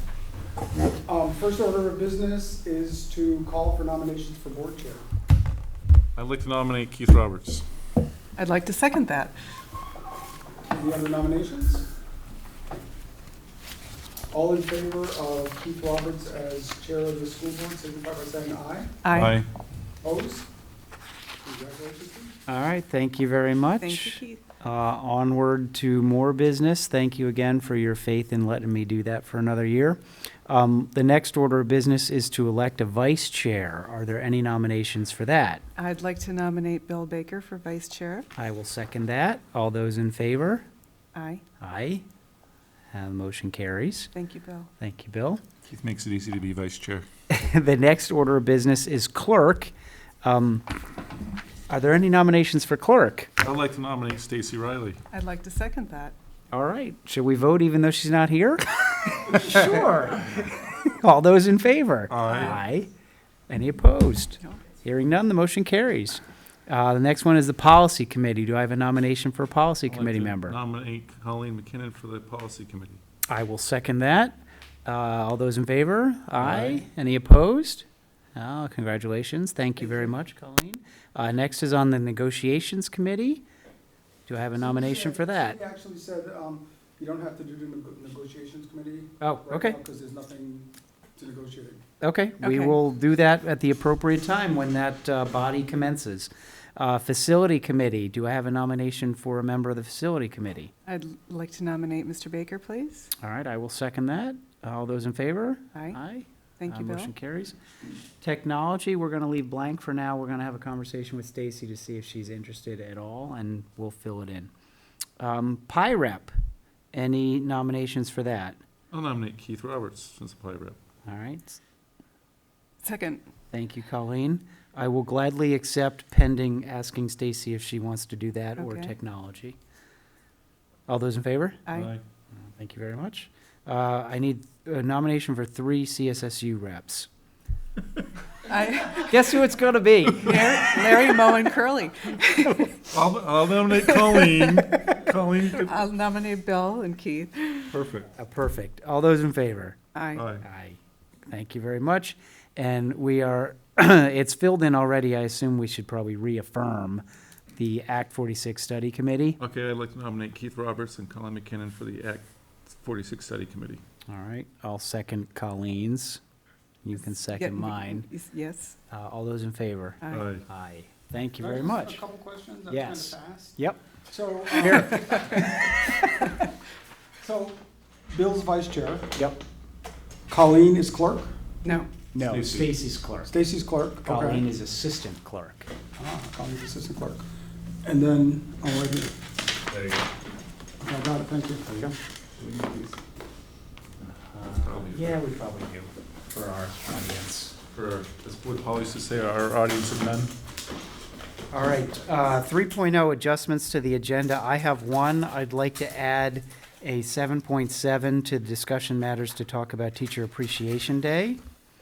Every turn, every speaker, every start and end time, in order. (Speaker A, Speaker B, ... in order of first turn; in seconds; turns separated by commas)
Speaker A: 1.0-5.0, Speaker B: 6.1-7.6, Speaker C: 8.4-9.3, Speaker A: 10.7-11.8, Speaker A: 14.3-19.0, Speaker C: 19.0-19.4, Speaker B: 19.1-19.4, Speaker A: 20.0-20.4, Speaker A: 21.4-22.3, Speaker D: 22.5-35.6, Speaker C: 23.8-24.4, Speaker C: 35.8-38.3, Speaker D: 38.4-40.6, Speaker C: 41.1-41.4, Speaker D: 41.6-42.0, Speaker D: 42.9-44.1, Speaker C: 44.1-44.7, Speaker D: 44.8-45.4, Speaker B: 45.6-47.0, Speaker D: 47.3-49.7, Speaker D: 50.2-50.7, Speaker D: 51.7-53.3, Speaker B: 53.4-55.0, Speaker C: 55.1-56.1, Speaker D: 56.5-62.9, Speaker B: 62.1-62.6, Speaker C: 62.2-62.6, Speaker D: 63.5-70.6, Speaker B: 69.9-73.0, Speaker D: 73.3-83.4, Speaker B: 76.4-76.8, Speaker D: 84.3-85.6, Speaker A: 84.6-91.8, Speaker D: 89.2-89.8, Speaker D: 92.0-100.7, Speaker C: 92.4-92.8, Speaker C: 100.8-103.1, Speaker D: 103.2-107.5, Speaker C: 105.7-106.0, Speaker C: 106.6-107.1, Speaker D: 108.2-114.5, Speaker D: 115.2-116.3, Speaker D: 116.9-118.6, Speaker B: 118.9-120.8, Speaker D: 121.0-121.6, Speaker C: 122.8-123.2, Speaker D: 123.5-129.6, Speaker C: 128.6-128.9, Speaker D: 130.9-131.6, Speaker C: 131.7-131.9, Speaker B: 131.7-132.0, Speaker D: 132.6-137.1, Speaker C: 138.5-139.2, Speaker D: 139.1-140.5, Speaker C: 140.2-142.8, Speaker B: 142.9-145.7, Speaker C: 145.6-147.7, Speaker B: 147.7-148.1, Speaker D: 148.2-149.8, Speaker C: 149.9-150.2, Speaker B: 150.1-150.4, Speaker D: 150.4-157.0, Speaker D: 157.6-159.4, Speaker B: 159.4-163.8, Speaker D: 164.1-166.2, Speaker D: 166.8-168.1, Speaker C: 167.3-168.8, Speaker D: 168.9-172.0, Speaker C: 170.0-170.3, Speaker B: 170.1-170.4, Speaker A: 171.4-175.2, Speaker D: 172.7-173.8, Speaker D: 174.5-176.1, Speaker A: 177.2-177.6, Speaker A: 178.1-179.1, Speaker D: 179.1-179.4, Speaker A: 180.3-181.3, Speaker C: 181.6-181.9, Speaker D: 182.1-183.3, Speaker B: 182.2-182.7, Speaker A: 183.3-184.4, Speaker D: 184.0-185.7, Speaker A: 186.0-187.2, Speaker A: 187.8-189.1, Speaker B: 189.7-190.0, Speaker A: 190.8-191.6, Speaker B: 192.4-192.9, Speaker D: 194.3-197.6, Speaker B: 194.6-195.2, Speaker B: 197.7-200.3, Speaker D: 201.5-211.4